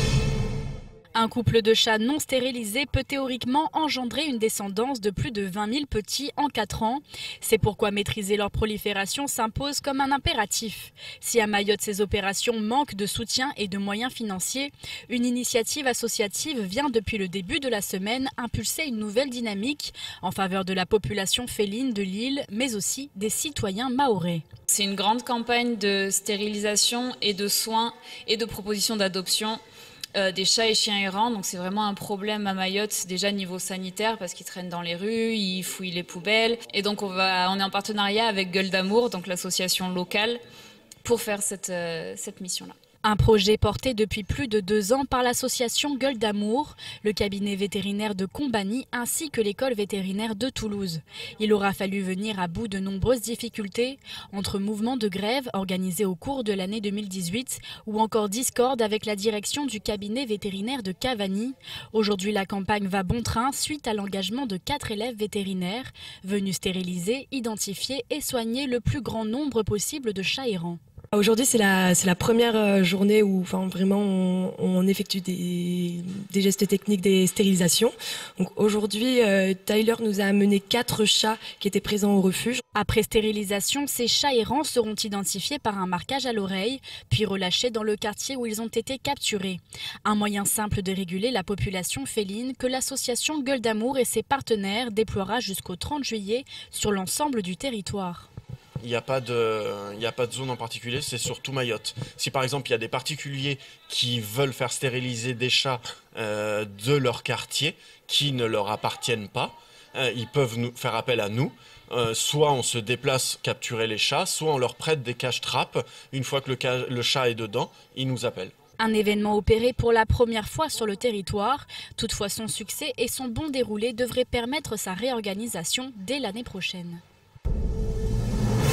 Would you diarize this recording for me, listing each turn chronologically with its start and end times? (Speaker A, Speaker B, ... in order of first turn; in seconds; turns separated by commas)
Speaker A: 1.1-24.4, Speaker B: 24.7-29.6, Speaker B: 30.1-40.4, Speaker B: 41.0-42.7, Speaker A: 43.0-70.8, Speaker C: 71.1-82.6, Speaker A: 82.7-98.3, Speaker D: 98.8-118.5, Speaker A: 118.8-127.0